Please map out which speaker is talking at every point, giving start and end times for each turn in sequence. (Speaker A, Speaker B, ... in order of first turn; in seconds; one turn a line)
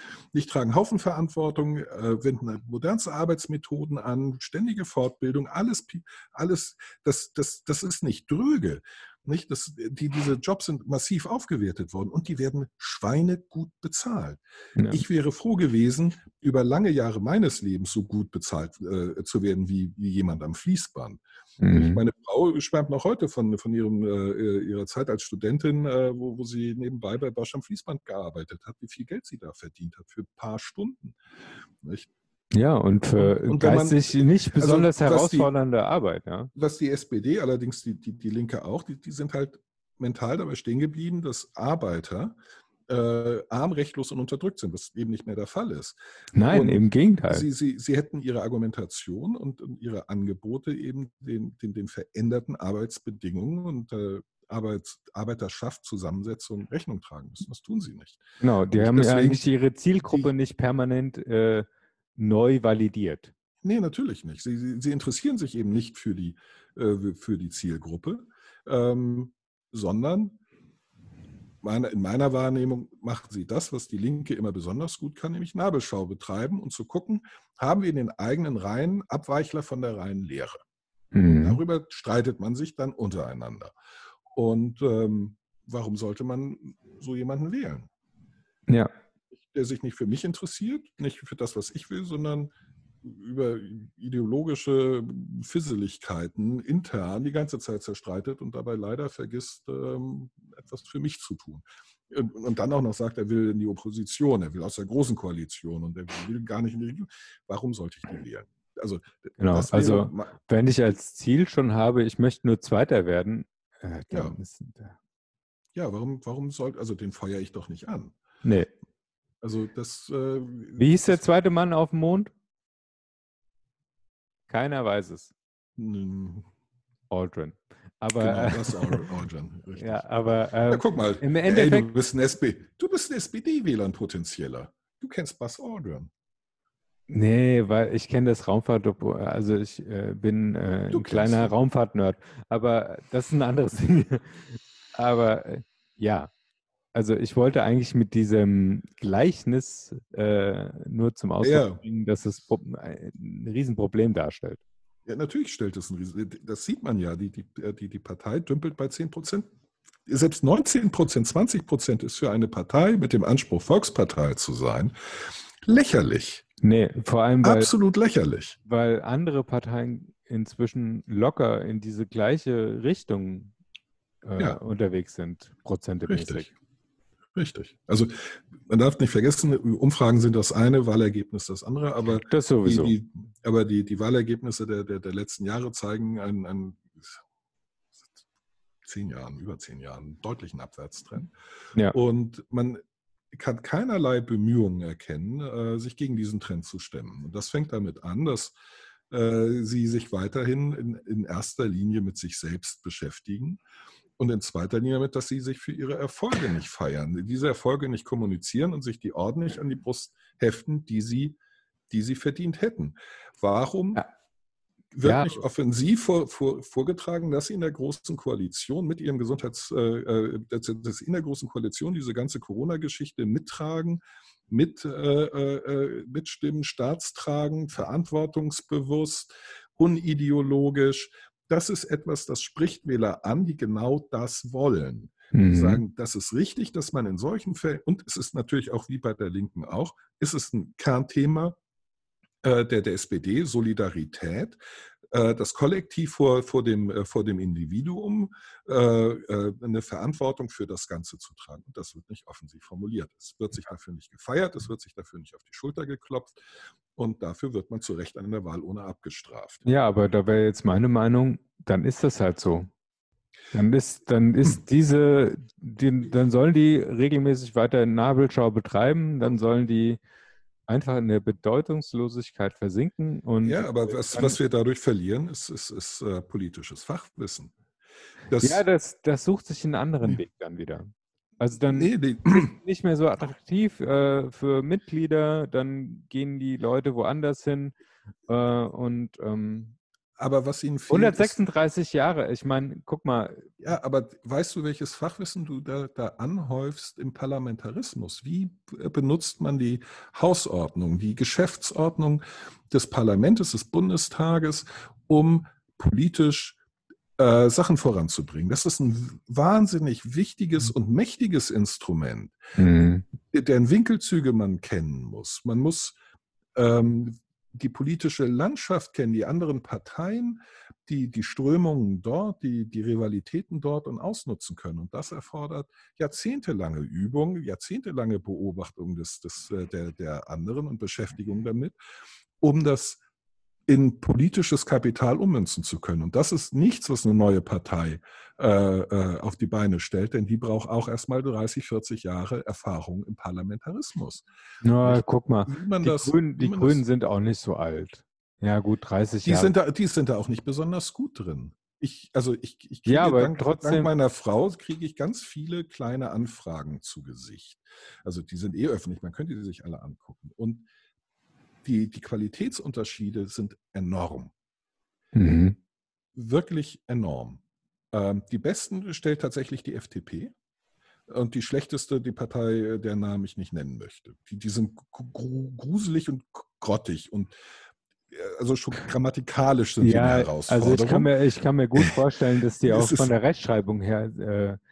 Speaker A: 0.3-31.2
Speaker B: 14.8-15.0
Speaker B: 21.6-22.0
Speaker A: 31.8-32.1
Speaker B: 32.5-36.5
Speaker A: 33.2-35.5
Speaker A: 36.5-59.4
Speaker B: 46.3-47.5
Speaker B: 58.4-63.3
Speaker A: 63.6-70.4
Speaker A: 71.6-80.6
Speaker B: 81.1-81.6
Speaker A: 81.3-83.8
Speaker A: 84.3-87.9
Speaker A: 89.3-92.5
Speaker A: 93.0-110.3
Speaker B: 109.4-115.0
Speaker A: 114.1-114.4
Speaker A: 115.8-118.2
Speaker B: 118.4-118.7
Speaker A: 119.4-121.2
Speaker B: 120.8-122.3
Speaker B: 124.5-125.3
Speaker A: 125.8-126.5
Speaker B: 127.1-129.1
Speaker A: 128.2-130.1
Speaker B: 129.8-131.9
Speaker A: 130.7-136.1
Speaker B: 137.1-146.3
Speaker A: 140.9-141.5
Speaker B: 146.9-154.6
Speaker A: 151.4-151.8
Speaker A: 155.1-159.5
Speaker A: 160.1-166.5
Speaker B: 166.6-167.7
Speaker A: 167.4-168.6
Speaker B: 168.7-173.5
Speaker B: 174.2-176.5
Speaker A: 176.1-176.5
Speaker A: 177.3-187.2
Speaker B: 182.2-182.9
Speaker A: 188.8-191.3
Speaker A: 191.9-198.6
Speaker A: 199.1-203.6
Speaker A: 204.2-211.4
Speaker A: 211.9-214.0
Speaker A: 214.9-241.6
Speaker B: 215.0-215.3
Speaker B: 235.3-235.8
Speaker A: 242.4-244.6
Speaker A: 245.1-256.4
Speaker A: 256.9-259.7
Speaker B: 259.6-262.7
Speaker B: 263.5-270.0
Speaker B: 270.7-274.4
Speaker A: 273.4-277.5
Speaker A: 278.3-278.6
Speaker B: 278.4-287.8
Speaker A: 281.7-282.5
Speaker B: 288.3-289.8
Speaker A: 290.2-291.4
Speaker B: 290.9-293.5
Speaker A: 293.6-306.6
Speaker A: 307.2-312.4
Speaker B: 312.6-313.1
Speaker A: 313.2-316.0
Speaker A: 316.6-331.8
Speaker A: 332.4-333.0
Speaker A: 333.7-344.3
Speaker B: 344.6-349.5
Speaker A: 344.8-346.8
Speaker A: 349.2-360.7
Speaker B: 352.9-353.9
Speaker A: 361.6-364.3
Speaker B: 365.1-365.6
Speaker A: 366.1-367.4
Speaker A: 367.9-370.3
Speaker A: 371.1-377.5
Speaker A: 378.1-381.1
Speaker B: 379.8-384.6
Speaker A: 382.6-383.1